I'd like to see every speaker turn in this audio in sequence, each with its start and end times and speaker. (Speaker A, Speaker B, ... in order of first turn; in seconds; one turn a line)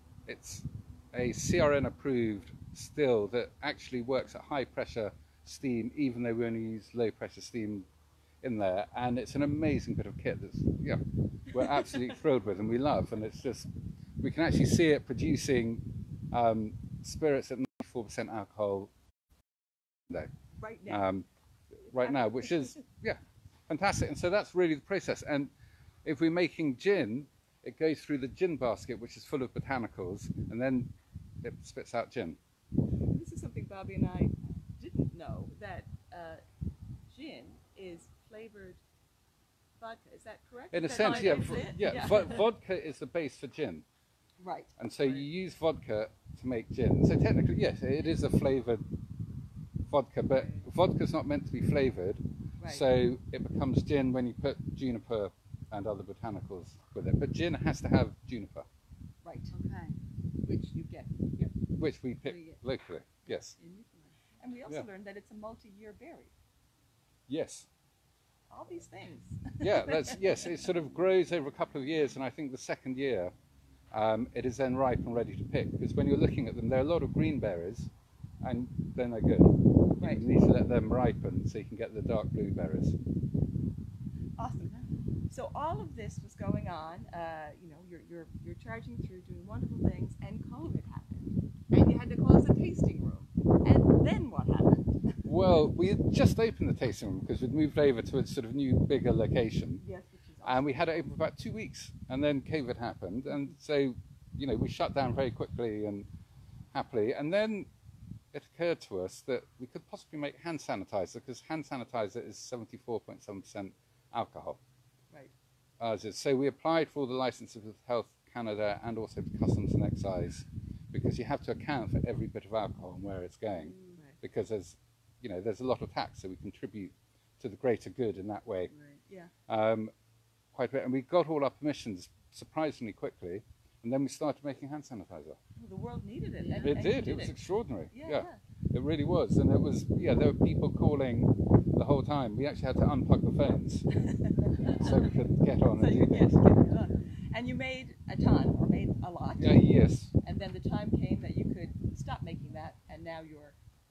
Speaker A: 0.3-7.9
Speaker A: 8.4-13.7
Speaker A: 14.2-18.9
Speaker B: 20.6-21.1
Speaker A: 20.9-25.5
Speaker B: 22.0-22.8
Speaker A: 26.0-32.4
Speaker B: 33.1-36.4
Speaker B: 37.1-38.8
Speaker B: 39.8-42.4
Speaker A: 40.7-43.9
Speaker C: 40.9-42.2
Speaker B: 44.4-44.7
Speaker A: 44.8-48.9
Speaker A: 49.9-58.7
Speaker B: 52.6-52.9
Speaker B: 59.2-59.5
Speaker C: 59.5-60.0
Speaker B: 60.4-61.5
Speaker A: 61.8-63.5
Speaker C: 62.3-62.5
Speaker C: 63.6-63.9
Speaker B: 64.4-66.3
Speaker A: 67.3-67.7
Speaker B: 68.5-70.2
Speaker A: 69.6-73.3
Speaker A: 73.9-77.9
Speaker A: 78.4-83.0
Speaker B: 80.0-80.2
Speaker B: 84.4-84.8
Speaker B: 85.3-94.9
Speaker A: 95.2-99.8
Speaker B: 99.8-101.1
Speaker A: 100.4-106.1
Speaker A: 106.7-107.7
Speaker A: 108.3-114.6
Speaker A: 115.8-128.7
Speaker C: 123.5-124.0
Speaker C: 128.7-129.0
Speaker A: 129.5-129.9
Speaker A: 130.5-135.4
Speaker B: 135.6-137.3
Speaker C: 136.4-136.8
Speaker A: 136.6-143.9
Speaker B: 137.9-138.4
Speaker B: 144.0-144.9
Speaker A: 144.6-146.4
Speaker B: 145.8-149.6
Speaker A: 149.4-150.1
Speaker B: 150.2-153.6